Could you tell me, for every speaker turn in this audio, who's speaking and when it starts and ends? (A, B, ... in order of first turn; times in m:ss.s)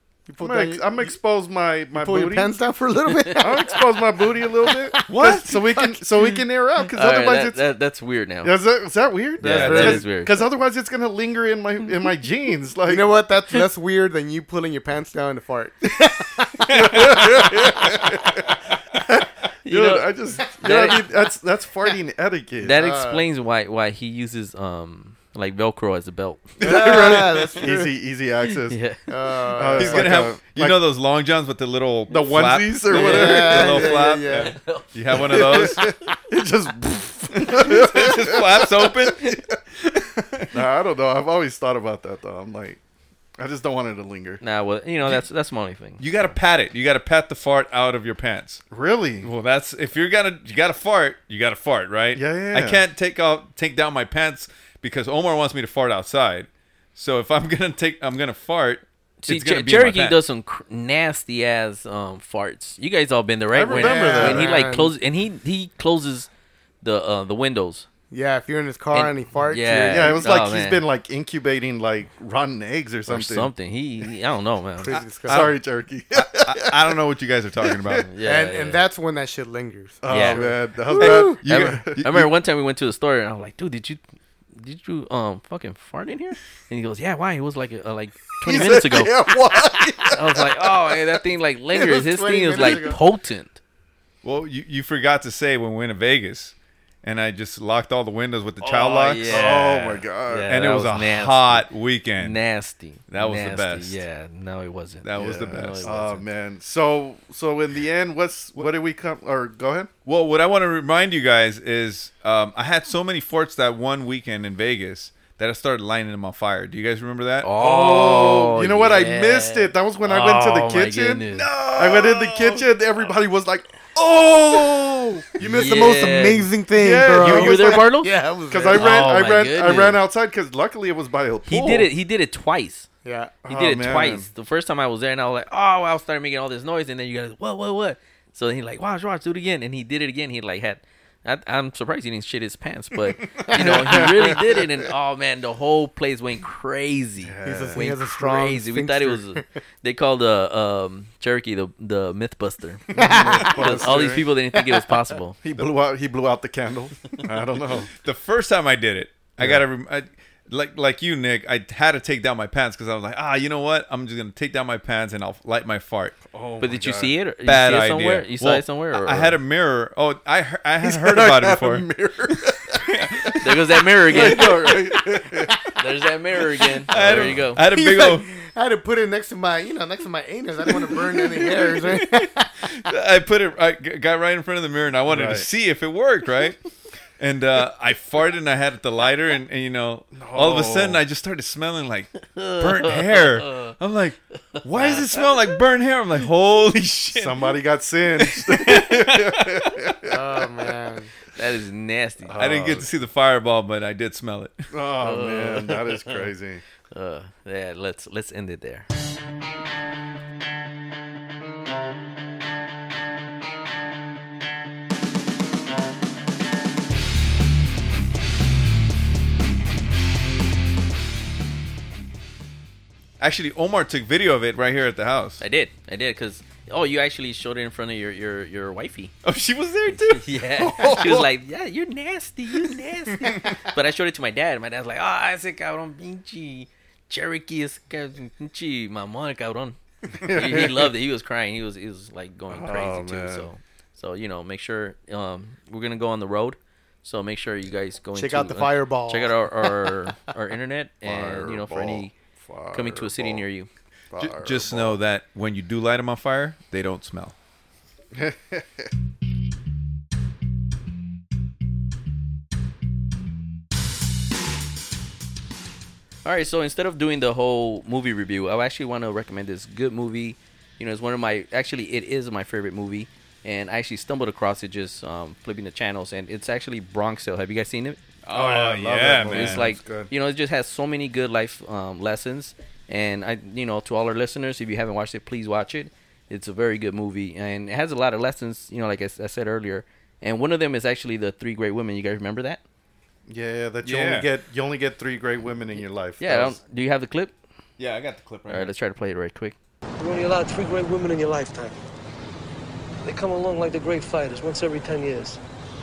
0:00.3-0:01.2 A
0:00.4-0:02.6 B
0:01.9-0:03.9 A
0:03.4-0:07.6 B
0:04.7-0:06.4 A
0:05.1-0:05.6 C
0:06.9-0:08.5 D
0:08.4-0:13.1 B
0:09.4-0:10.4 D
0:09.4-0:10.1 A
0:12.9-0:17.2 A
0:16.7-0:22.9 B
0:19.6-0:21.0 D
0:22.6-0:26.6 D
0:22.7-0:23.2 A
0:26.6-0:27.9 A
0:26.6-0:28.8 B
0:28.7-0:29.0 D
0:29.1-0:30.3 A
0:29.5-0:30.8 B
0:29.8-0:35.9 C
0:32.1-0:34.0 B
0:32.9-0:34.6 A
0:34.4-0:34.8 D
0:35.1-0:39.4 B
0:37.6-0:40.5 C
0:40.5-0:42.8 B
0:43.4-0:44.4 B
0:44.4-0:46.0 D
0:46.0-0:48.6 C
0:48.7-0:49.3 B
0:49.2-1:00.2 C
0:52.2-0:52.8 B
0:59.2-1:06.3 D
1:03.5-1:04.5 B
1:03.7-1:04.9 A
1:06.8-1:07.9 D
1:08.1-1:10.2 A
1:08.9-1:10.8 D
1:09.9-1:13.5 B
1:13.1-1:15.0 D
1:14.8-1:15.6 A
1:15.3-1:15.6 C
1:15.3-1:17.0 B
1:16.2-1:18.1 C
1:17.6-1:18.1 B
1:18.1-1:18.8 D
1:18.2-1:21.4 A
1:20.0-1:22.0 B
1:20.1-1:24.0 D
1:21.0-1:22.3 C
1:24.6-1:29.2 D
1:28.4-1:30.9 B
1:30.1-1:33.6 D
1:31.7-1:33.0 A
1:34.2-1:39.7 C
1:38.6-1:40.5 B
1:39.0-1:41.7 D
1:40.5-1:42.4 C
1:42.2-1:46.2 D
1:43.1-1:44.0 C
1:45.0-1:45.9 C
1:45.2-1:49.9 B
1:50.0-1:57.5 C
1:57.4-2:01.5 D
1:57.6-2:05.7 B
2:01.3-2:02.7 C
2:05.4-2:08.9 A
2:05.5-2:06.5 D
2:06.7-2:07.9 B
2:07.2-2:08.1 D
2:08.5-2:11.9 B
2:08.7-2:10.0 D
2:11.5-2:12.9 D
2:13.0-2:13.4 A
2:13.4-2:14.3 B
2:13.5-2:35.4 D
2:23.5-2:24.1 A
2:23.5-2:24.7 B
2:27.2-2:27.9 B
2:27.4-2:29.5 A
2:32.9-2:34.0 A
2:32.9-2:34.3 B
2:35.4-2:37.9 B
2:38.0-2:46.2 C
2:46.3-2:47.1 B
2:46.6-2:49.4 D
2:47.4-2:51.9 C
2:50.8-2:53.4 B
2:52.8-2:53.6 C
2:53.4-2:54.8 D
2:54.0-2:55.7 B
2:55.8-2:57.6 D
2:56.8-2:57.4 B
2:56.9-2:58.3 C
2:57.6-3:02.5 A
3:02.0-3:06.6 C
3:05.1-3:05.5 B
3:07.2-3:17.6 C
3:10.1-3:11.0 B
3:12.3-3:13.8 D
3:14.7-3:15.3 D
3:17.1-3:20.5 B
3:18.2-3:19.7 C
3:20.1-3:21.1 A
3:21.4-3:22.4 D
3:22.2-3:22.9 B
3:22.4-3:24.6 C
3:24.7-3:26.6 B
3:25.0-3:26.2 D
3:26.9-3:28.9 D
3:43.2-3:45.4 C
3:45.4-3:49.1 D
3:49.2-3:50.2 C
3:50.1-3:59.8 D
3:50.6-3:51.3 B
4:00.1-4:00.9 B
4:00.3-4:12.1 D
4:02.5-4:03.5 B
4:08.2-4:09.4 A
4:11.0-4:13.5 B
4:12.7-4:13.7 D
4:14.1-4:15.0 B
4:14.2-4:17.4 C
4:18.1-4:18.9 B
4:26.2-4:38.0 D
4:38.2-4:39.7 C
4:38.3-4:40.1 B
4:39.3-4:52.6 D
4:53.3-4:56.6 B
4:53.8-4:54.3 C
4:56.2-4:57.3 D
4:57.8-4:58.7 C
4:58.5-4:59.6 D
5:00.0-5:01.8 E
5:03.0-5:05.4 E